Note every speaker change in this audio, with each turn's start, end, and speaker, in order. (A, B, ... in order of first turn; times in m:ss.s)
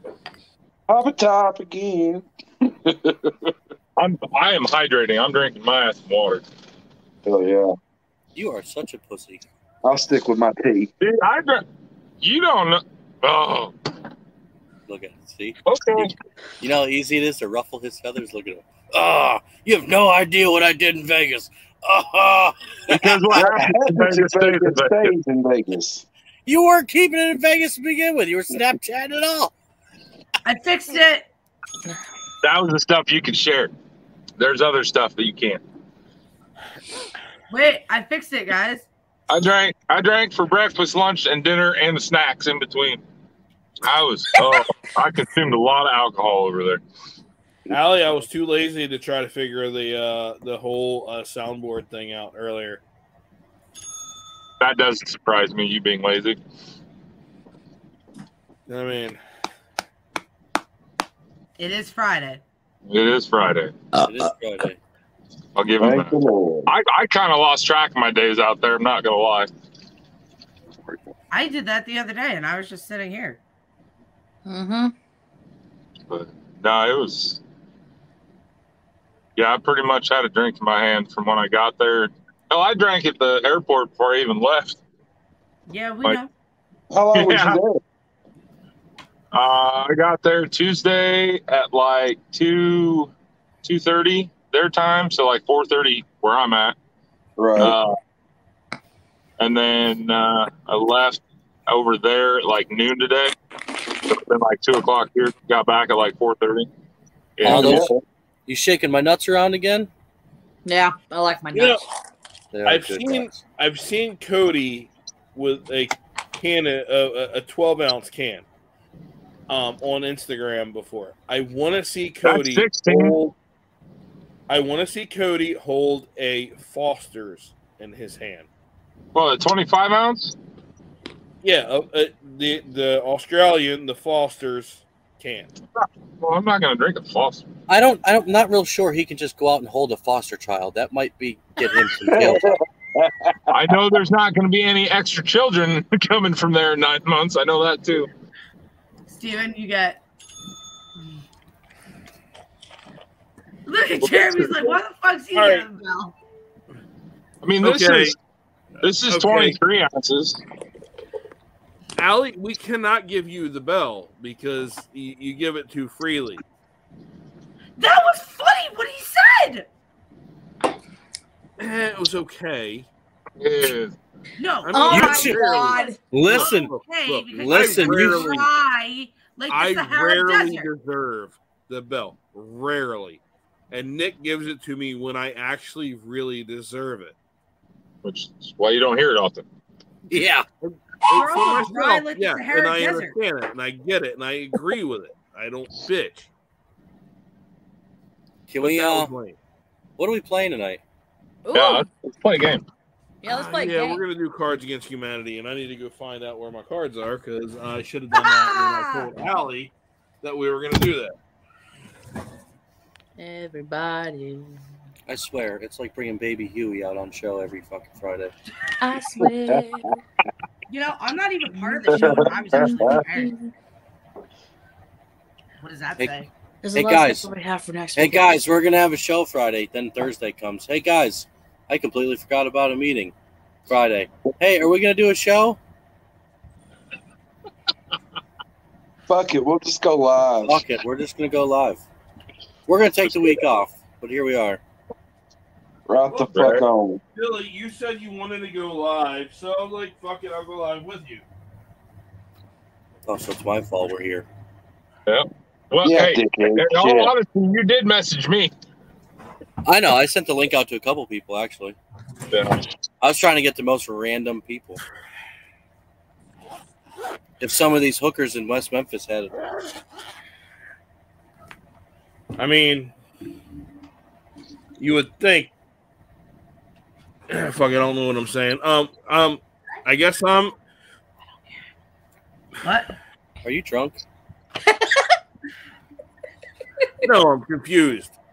0:00.9-0:03.5 A
0:04.0-0:06.4 B
0:07.2-0:07.7 A
0:08.4-0:09.4 C
0:09.8-0:10.9 A
0:11.0-0:11.6 B
0:12.2-0:13.7 B
0:14.9-0:16.0 C
0:15.6-0:16.1 B
0:16.6-0:23.3 C
0:22.9-0:25.1 B
0:23.3-0:26.0 A
0:26.4-0:29.5 C
0:30.4-0:31.2 D
0:32.4-0:33.7 B
0:34.4-0:35.6 B
0:37.5-0:38.8 D
0:39.3-0:43.0 B
0:43.8-0:46.8 B
0:47.7-0:52.8 E
0:54.6-0:56.4 B
0:58.7-0:59.2 E
1:01.6-1:02.4 D
1:02.9-1:03.7 B
1:04.0-1:04.8 C
1:05.6-1:06.1 B
1:05.8-1:06.7 A
1:06.6-1:09.5 B
1:11.3-1:13.4 D
1:14.4-1:14.9 F
1:16.1-1:17.4 B
1:19.4-1:24.8 B
1:25.7-1:26.3 D
1:26.9-1:27.8 A
1:27.1-1:27.6 B
1:29.3-1:33.1 B
1:33.6-1:36.8 B
1:37.4-1:37.8 A
1:37.6-1:38.0 B
1:39.4-1:43.3 B
1:44.0-1:46.7 B
1:47.4-1:47.9 B
1:47.4-1:47.9 C
1:47.4-1:48.0 A
1:48.5-1:49.9 C
1:50.6-1:51.9 F
1:51.5-1:51.8 C
1:52.5-1:53.4 C
1:52.6-1:58.4 E
1:59.5-2:03.4 E
2:02.2-2:03.2 B
2:04.5-2:08.5 E
2:09.1-2:10.4 B
2:11.4-2:15.5 E
2:15.8-2:17.5 B
2:17.7-2:22.6 C
2:22.1-2:23.8 A
2:23.5-2:28.1 B
2:29.1-2:30.0 D
2:33.6-2:36.1 D
2:34.0-2:34.6 B
2:35.3-2:35.7 E
2:37.4-2:38.2 B
2:37.6-2:38.1 E
2:38.8-2:40.4 B
2:39.0-2:39.6 E
2:42.0-2:46.4 E
2:47.8-2:49.7 D
2:51.6-2:52.9 E
2:53.4-2:54.0 B
2:54.4-3:00.7 D
2:54.6-2:58.4 E
2:54.7-2:56.0 F
2:54.9-2:55.3 C
2:56.1-2:56.7 C
2:57.4-2:58.4 C
2:59.5-3:07.1 E
3:08.0-3:09.4 B
3:10.1-3:10.4 C
3:10.6-3:16.3 E
3:11.1-3:13.1 D
3:18.5-3:19.1 C
3:18.6-3:19.4 E
3:20.0-3:20.8 C
3:21.4-3:21.8 F
3:21.5-3:22.6 B
3:23.2-3:24.0 F
3:23.2-3:31.2 E
3:28.2-3:29.1 D
3:33.2-3:34.6 F
3:35.1-3:38.3 C
3:38.8-3:40.0 F
3:39.2-3:39.6 A
3:40.7-3:43.3 D
3:41.5-3:43.5 F
3:41.9-3:43.0 A
3:45.6-3:46.3 D
3:46.6-3:48.4 F
3:46.7-3:47.3 C
3:47.9-3:53.1 C
3:53.7-3:55.6 C
3:59.1-4:00.6 A
4:00.4-4:01.8 C
4:02.7-4:04.6 C
4:05.9-4:07.0 A
4:06.3-4:06.6 B
4:07.1-4:11.2 E
4:13.0-4:14.3 C
4:15.1-4:18.5 B
4:15.8-4:17.1 A
4:19.6-4:21.8 C
4:22.3-4:22.7 B
4:23.0-4:24.8 C
4:27.4-4:29.4 C
4:32.4-4:32.9 E
4:34.8-4:35.5 E
4:37.3-4:40.5 E
4:42.6-4:42.9 D
4:43.4-4:44.0 C
4:47.0-4:48.1 E